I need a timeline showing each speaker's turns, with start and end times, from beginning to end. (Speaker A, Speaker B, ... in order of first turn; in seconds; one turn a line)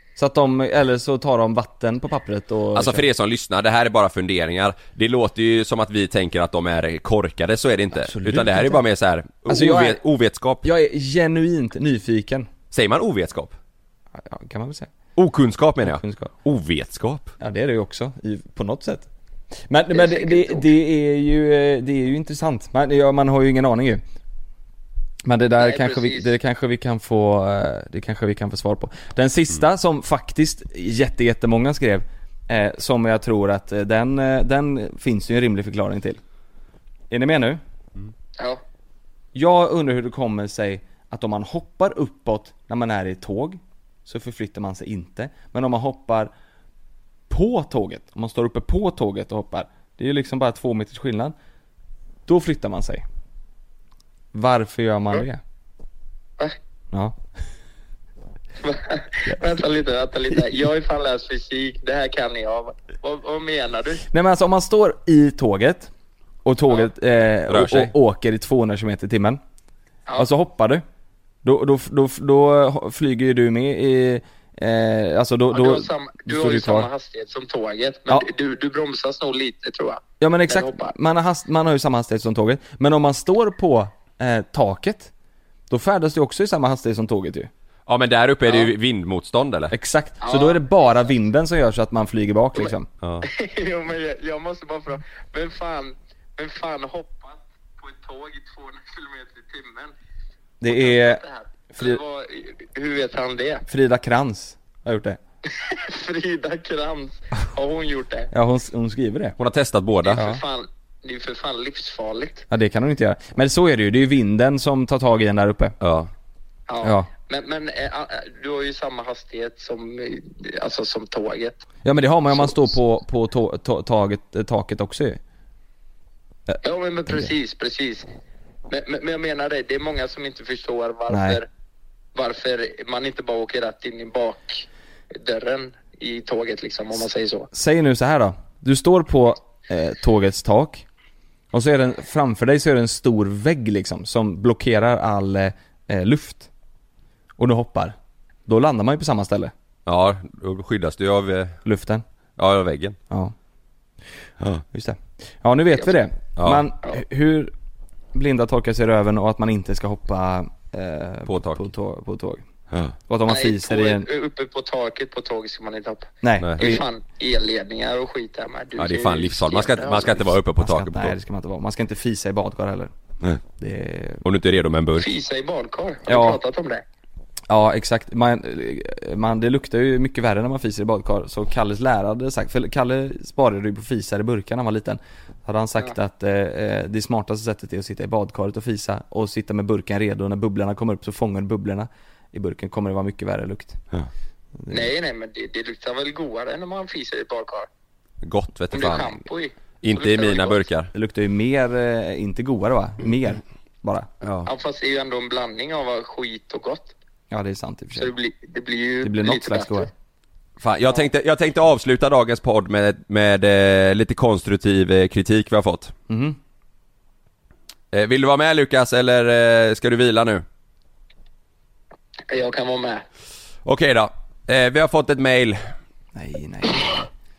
Speaker A: 0.2-3.1
Speaker B: 2.7-10.7
Speaker A: 8.0-8.8
Speaker A: 9.5-10.0
Speaker A: 10.6-12.5
Speaker B: 12.7-13.6
Speaker A: 14.2-14.9
Speaker B: 15.2-17.3
Speaker A: 15.8-16.3
Speaker A: 17.4-19.1
Speaker A: 19.7-24.0
Speaker C: 19.9-20.6
Speaker A: 25.2-36.2
Speaker C: 25.6-26.3
Speaker A: 37.1-37.6
Speaker A: 39.3-46.3
Speaker A: 47.3-51.4
Speaker A: 52.3-53.0
Speaker A: 54.3-55.4
Speaker A: 56.9-57.2
Speaker C: 58.6-64.0
Speaker A: 60.3-60.6
Speaker A: 64.1-65.9
Speaker A: 66.5-69.4
Speaker B: 67.5-67.9
Speaker A: 70.2-70.8
Speaker A: 71.4-76.9
Speaker C: 75.5-80.9
Speaker A: 80.2-85.1
Speaker A: 85.7-87.5
Speaker B: 87.9-89.7
Speaker A: 89.7-92.9
Speaker C: 90.2-90.6
Speaker C: 92.6-99.9
Speaker B: 93.0-93.3
Speaker A: 100.6-101.2
Speaker C: 100.7-103.7
Speaker A: 103.7-105.2
Speaker C: 105.5-108.3
Speaker A: 108.3-109.4
Speaker B: 109.4-110.2
Speaker C: 110.1-112.5
Speaker A: 110.2-110.4
Speaker A: 112.5-115.8
Speaker B: 115.8-116.1
Speaker C: 116.7-121.6
Speaker A: 116.8-117.1
Speaker A: 121.8-125.2
Speaker C: 126.6-128.1
Speaker C: 128.7-131.5
Speaker A: 131.1-131.4
Speaker C: 132.1-137.5
Speaker A: 137.5-140.8
Speaker A: 141.5-146.5
Speaker A: 147.4-149.5
Speaker B: 149.9-151.6
Speaker A: 151.7-152.0
Speaker B: 152.4-153.0
Speaker A: 154.7-157.5
Speaker B: 156.4-156.6
Speaker A: 158.1-162.4
Speaker B: 161.3-161.7
Speaker A: 163.1-164.1
Speaker C: 163.2-170.2
Speaker A: 166.2-166.8
Speaker B: 166.4-166.8
Speaker B: 168.8-171.2
Speaker A: 170.6-172.9
Speaker A: 173.6-174.2
Speaker B: 174.2-175.1
Speaker C: 175.0-176.8
Speaker A: 176.1-176.4
Speaker A: 177.5-193.8
Speaker A: 194.6-194.9
Speaker C: 194.7-197.7
Speaker B: 198.2-199.2
Speaker C: 198.7-200.6
Speaker B: 199.8-200.9
Speaker A: 200.9-204.1
Speaker B: 204.2-204.5
Speaker C: 204.4-206.9
Speaker A: 207.3-208.1
Speaker C: 207.9-209.9
Speaker A: 209.0-209.9
Speaker B: 210.6-215.9
Speaker A: 216.1-216.4
Speaker B: 217.9-220.4
Speaker C: 222.3-223.0
Speaker B: 223.7-225.6
Speaker A: 226.2-227.0